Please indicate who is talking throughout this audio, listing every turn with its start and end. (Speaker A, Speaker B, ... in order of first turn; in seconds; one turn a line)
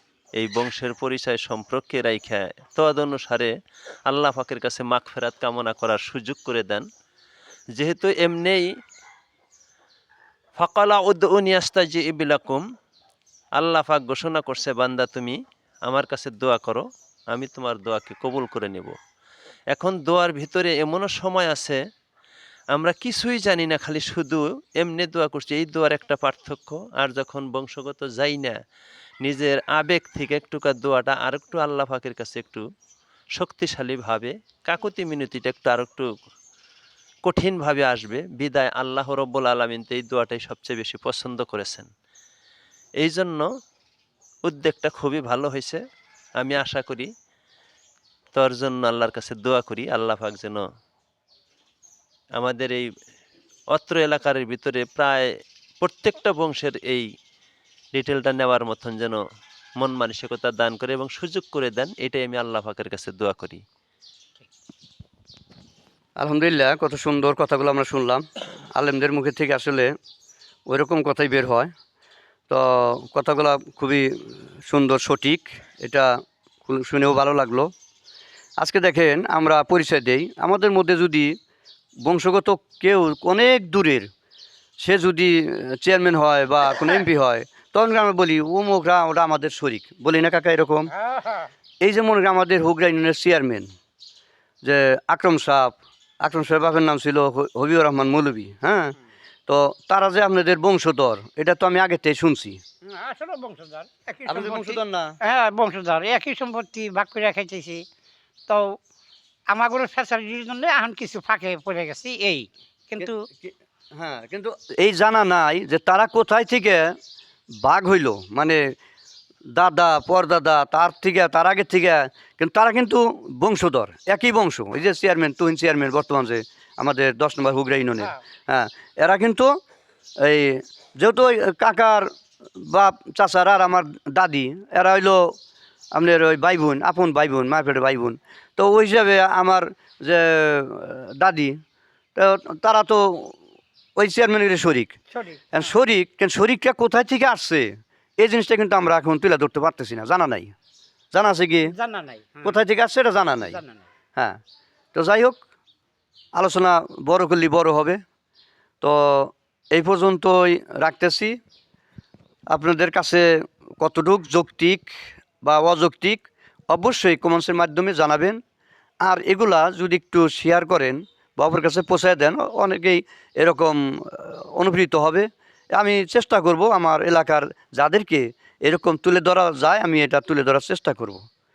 Speaker A: 0.4-3.5
Speaker A: 4.0-6.8
Speaker A: 7.8-8.7
Speaker A: 10.6-12.6
Speaker A: 13.6-18.9
Speaker A: 19.7-21.8
Speaker A: 22.7-28.6
Speaker A: 29.2-32.6
Speaker A: 33.4-36.1
Speaker A: 37.2-41.9
Speaker A: 43.0-43.5
Speaker A: 44.5-45.8
Speaker A: 46.4-47.1
Speaker A: 48.3-50.6
Speaker A: 52.4-52.8
Speaker A: 53.7-55.2
Speaker A: 55.8-57.0
Speaker A: 57.9-59.2
Speaker A: 59.8-63.6
Speaker B: 66.2-69.9
Speaker B: 70.7-71.7
Speaker B: 72.5-76.1
Speaker B: 76.6-77.7
Speaker B: 78.6-81.3
Speaker B: 82.0-84.1
Speaker B: 84.8-90.9
Speaker C: 91.1-91.5
Speaker B: 91.8-93.7
Speaker B: 94.6-98.9
Speaker B: 99.5-102.6
Speaker C: 102.8-107.8
Speaker B: 104.3-105.1
Speaker C: 108.5-108.7
Speaker C: 109.5-113.2
Speaker B: 113.0-116.9
Speaker B: 117.6-118.6
Speaker B: 119.5-129.5
Speaker B: 130.2-132.1
Speaker B: 132.6-135.2
Speaker B: 135.9-141.6
Speaker B: 142.2-143.3
Speaker B: 144.0-144.9
Speaker C: 145.1-145.7
Speaker B: 145.5-147.7
Speaker B: 148.2-150.5
Speaker B: 151.1-151.7
Speaker C: 151.7-152.6
Speaker B: 152.4-153.6
Speaker C: 153.4-153.8
Speaker B: 154.9-155.4
Speaker B: 156.3-158.0
Speaker B: 158.8-161.4
Speaker B: 162.5-163.3
Speaker B: 163.8-168.4
Speaker B: 169.0-181.2